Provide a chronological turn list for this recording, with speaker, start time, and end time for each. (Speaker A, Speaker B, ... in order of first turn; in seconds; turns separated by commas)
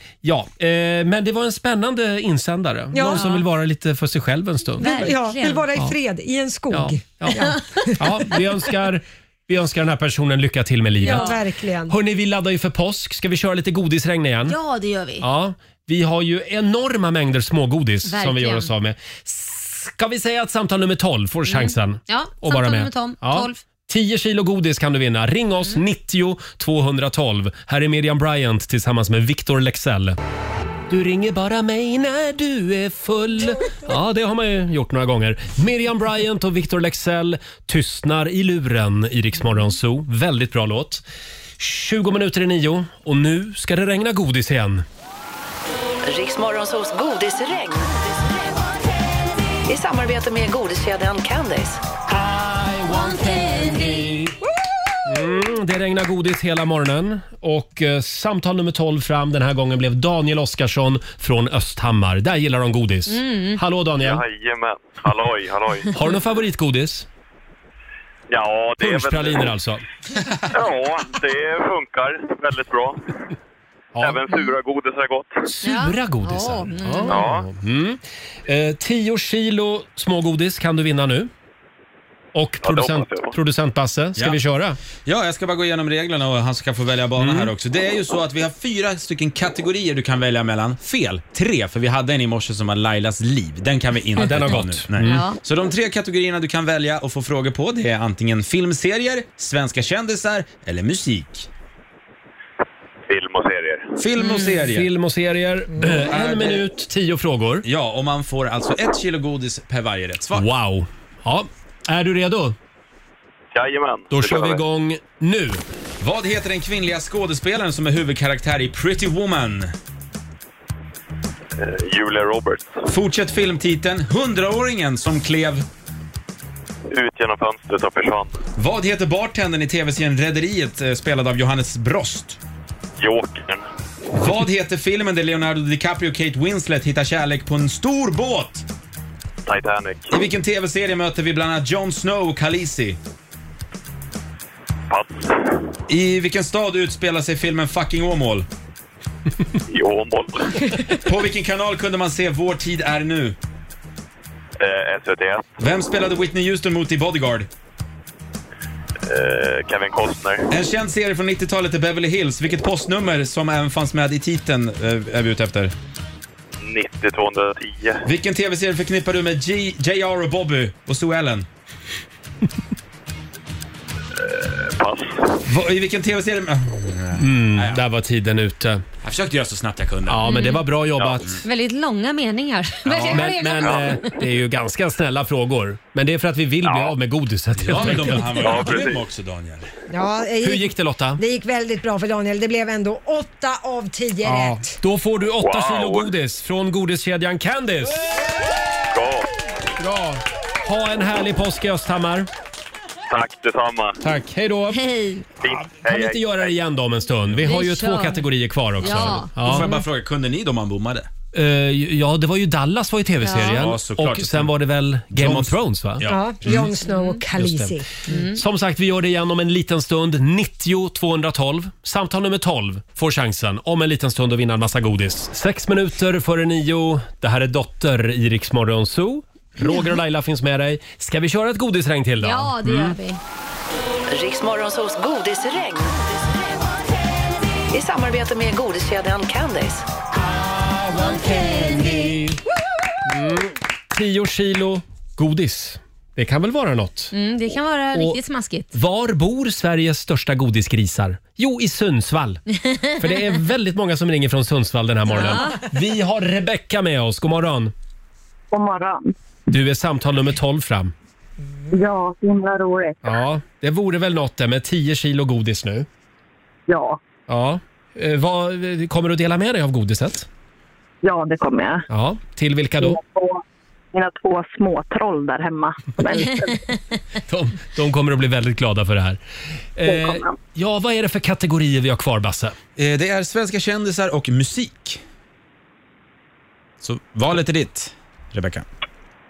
Speaker A: 0.2-5.1, Speaker B: 2.9-3.3, Speaker C: 3.0-3.4, Speaker C: 4.8-5.7, Speaker B: 4.8-8.3, Speaker A: 6.7-14.6, Speaker C: 7.5-7.9, Speaker C: 11.0-11.4, Speaker B: 11.0-11.9, Speaker C: 14.5-15.2, Speaker A: 15.2-30.2, Speaker C: 18.0-18.7, Speaker C: 21.5-23.6, Speaker A: 30.9-41.0, Speaker A: 41.6-44.8, Speaker D: 46.0-48.3, Speaker D: 49.7-51.8, Speaker A: 52.1-54.4, Speaker C: 52.9-54.2, Speaker A: 55.0-64.2, Speaker C: 63.1-63.6, Speaker E: 64.0-65.9, Speaker A: 65.9-67.1, Speaker E: 68.3-69.5, Speaker A: 68.8-69.8, Speaker E: 70.5-73.1, Speaker A: 73.9-74.4, Speaker E: 74.0-75.4, Speaker A: 75.5-81.3, Speaker C: 75.6-77.2, Speaker E: 77.1-77.4, Speaker A: 82.3-84.8, Speaker E: 82.6-83.3, Speaker F: 85.0-101.5, Speaker A: 87.2-87.5, Speaker A: 94.2-95.3, Speaker C: 95.0-95.4, Speaker E: 103.1-104.0, Speaker F: 104.0-104.9, Speaker C: 104.2-104.6, Speaker A: 104.6-107.6, Speaker F: 105.9-106.7, Speaker F: 107.6-110.5, Speaker A: 110.3-112.5, Speaker E: 113.5-114.6, Speaker A: 114.1-115.6, Speaker F: 116.0-119.7, Speaker E: 121.5-122.8, Speaker F: 122.9-125.7, Speaker E: 126.9-128.4, Speaker F: 128.6-132.4, Speaker E: 133.0-133.7, Speaker F: 134.1-138.6, Speaker E: 139.5-140.2, Speaker F: 140.1-143.0, Speaker E: 144.9-145.4, Speaker F: 145.9-148.4, Speaker E: 149.7-150.6, Speaker F: 150.9-153.3, Speaker E: 154.6-155.5, Speaker F: 155.6-157.5, Speaker E: 159.0-160.4, Speaker F: 160.5-165.7, Speaker E: 166.6-168.0, Speaker F: 168.0-171.5, Speaker E: 174.2-175.2, Speaker F: 175.4-177.8, Speaker A: 177.1-178.8, Speaker F: 179.0-180.2, Speaker A: 180.1-181.3, Speaker C: 180.2-180.6, Speaker C: 181.4-183.9, Speaker F: 182.8-183.3, Speaker A: 183.1-188.8, Speaker E: 183.6-183.9, Speaker F: 187.6-189.7, Speaker E: 188.4-189.0, Speaker B: 189.9-194.8, Speaker A: 190.4-191.2, Speaker A: 194.2-198.0, Speaker E: 195.4-196.1, Speaker E: 198.9-199.3, Speaker A: 199.8-202.3, Speaker E: 203.1-204.0, Speaker A: 204.0-204.8, Speaker C: 204.7-205.2, Speaker E: 205.4-206.4, Speaker A: 205.8-209.7, Speaker C: 207.4-208.2, Speaker C: 208.8-209.8, Speaker F: 209.1-211.1, Speaker A: 211.3-216.8, Speaker C: 213.2-213.6, Speaker F: 213.5-214.5, Speaker F: 215.1-216.6, Speaker B: 216.1-217.9, Speaker C: 216.8-217.2, Speaker A: 217.3-232.9, Speaker C: 218.1-218.4, Speaker C: 232.2-233.2, Speaker D: 234.1-236.2, Speaker D: 237.7-239.9, Speaker A: 240.3-242.4, Speaker A: 243.1-247.1, Speaker C: 247.1-248.7, Speaker A: 248.7-252.4, Speaker C: 252.6-253.0, Speaker A: 253.0-257.7, Speaker C: 255.1-255.6, Speaker G: 258.5-259.1, Speaker A: 259.5-260.9, Speaker G: 261.7-263.0, Speaker A: 263.0-265.9, Speaker G: 266.7-267.0, Speaker A: 267.3-270.3, Speaker G: 271.0-271.9, Speaker A: 271.9-273.0, Speaker G: 272.8-273.4, Speaker G: 273.9-276.7, Speaker A: 277.3-279.2, Speaker A: 279.8-282.6, Speaker G: 279.9-280.4, Speaker F: 282.8-285.0, Speaker F: 286.8-288.6